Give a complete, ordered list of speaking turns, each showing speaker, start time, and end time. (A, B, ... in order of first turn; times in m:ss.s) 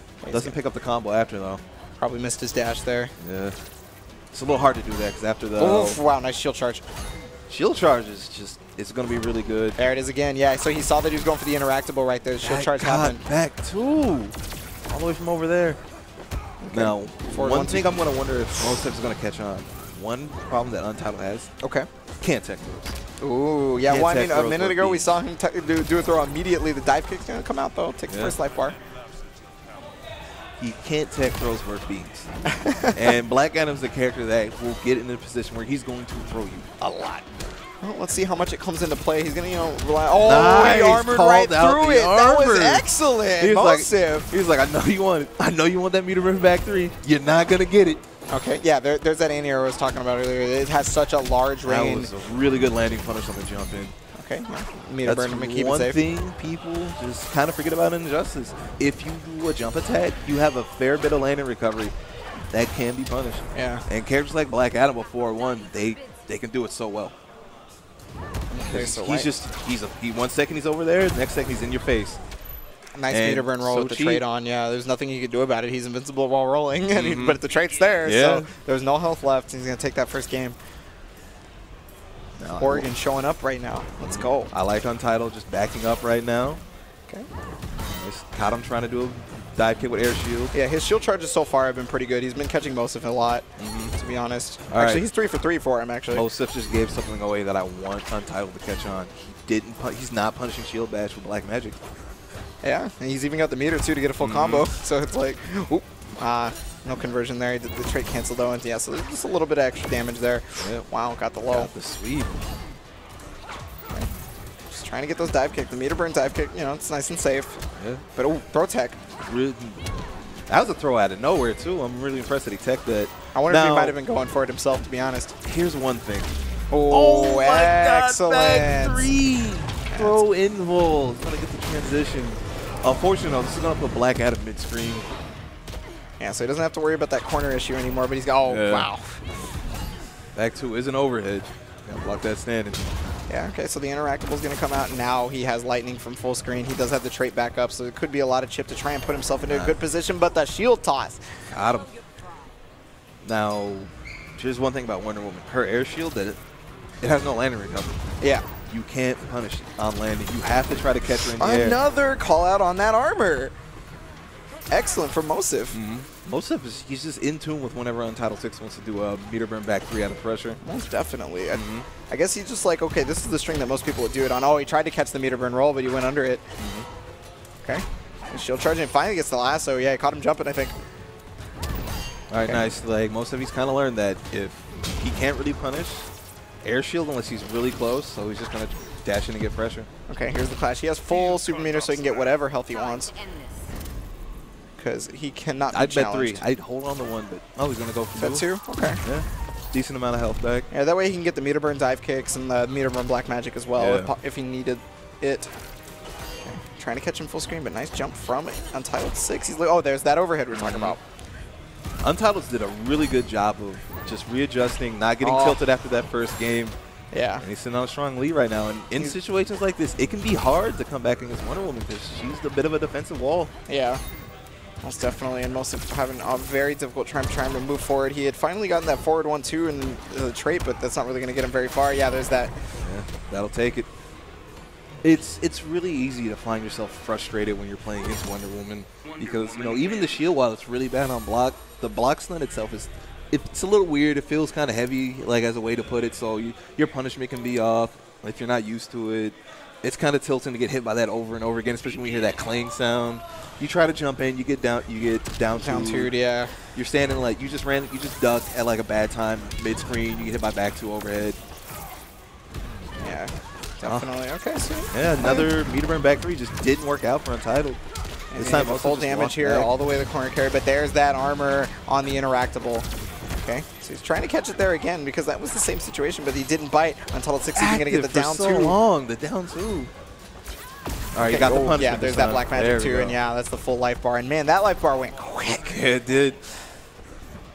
0:00.2-0:00.6 A
0:00.3-0:01.6 B
0:02.0-0:03.1 A
0:03.2-0:03.6 B
0:04.3-0:06.0 B
0:05.6-0:06.8 A
0:07.5-0:09.8 B
0:09.8-0:13.2 A
0:12.4-0:14.4 B
0:14.9-0:15.8 B
0:16.6-0:17.9 A
0:16.7-0:21.5 B
0:21.6-0:21.9 A
0:22.2-0:23.0 B
0:23.2-0:28.8 A
0:23.9-0:25.2 B
0:28.1-0:28.4 B
0:30.6-0:32.3 B
0:32.5-0:33.0 A
0:32.9-0:37.2 B
0:37.8-0:44.3 A
0:40.2-0:48.0 B
0:48.3-0:52.1 A
0:51.6-0:53.9 B
0:54.1-0:56.0 A
0:55.0-1:01.9 B
1:02.5-1:07.1 B
1:03.5-1:03.8 A
1:08.5-1:09.3 A
1:08.7-1:12.2 B
1:12.9-1:20.6 A
1:13.1-1:14.2 B
1:16.9-1:17.4 B
1:18.0-1:18.5 B
1:22.4-1:22.9 B
1:22.6-1:24.5 A
1:24.0-1:26.6 B
1:27.8-1:30.5 B
1:30.5-1:36.2 A
1:33.6-1:33.9 B
1:34.7-1:35.0 B
1:36.1-1:41.8 B
1:42.6-1:51.7 A
1:44.2-1:44.6 B
1:50.6-1:50.8 B
1:51.5-1:52.4 B
1:54.7-1:57.6 A
1:57.8-1:58.0 B
1:58.1-1:59.0 A
1:59.2-1:59.8 B
2:00.5-2:03.9 B
2:03.3-2:05.4 A
2:05.4-2:06.3 B
2:06.7-2:09.1 A
2:06.9-2:15.1 B
2:09.9-2:10.2 A
2:16.2-2:19.4 A
2:18.4-2:18.9 B
2:20.3-2:22.8 B
2:23.3-2:31.4 A
2:29.5-2:29.7 B
2:31.5-2:31.9 B
2:33.2-2:36.4 B
2:37.0-2:38.0 B
2:38.2-2:38.5 A
2:38.7-2:41.8 B
2:41.4-2:43.5 A
2:44.7-2:45.8 A
2:45.7-2:50.6 B
2:50.6-2:56.5 A
2:51.5-2:51.9 B
2:56.6-2:56.9 B
2:57.6-3:00.8 A
3:02.3-3:06.1 B
3:06.6-3:09.9 B
3:10.1-3:13.2 A
3:14.8-3:16.4 A
3:15.7-3:18.4 B
3:18.2-3:19.0 A
3:19.0-3:20.7 B
3:20.7-3:25.5 A
3:23.8-3:24.1 B
3:26.4-3:31.0 A
3:30.5-3:31.0 B
3:32.0-3:36.8 B
3:35.2-3:35.6 A
3:37.1-3:37.4 A
3:37.4-3:43.5 B
3:43.7-3:44.0 A
3:44.8-3:52.7 A
3:52.8-3:53.9 B
3:55.0-4:16.1 B
4:15.6-4:16.7 A
4:16.7-4:21.4 B
4:23.0-4:25.5 A
4:24.9-4:27.8 B
4:28.3-4:38.8 A
4:28.4-4:29.7 B
4:37.5-4:39.9 B
4:41.1-4:43.2 B
4:41.2-4:45.8 A
4:45.6-4:46.4 B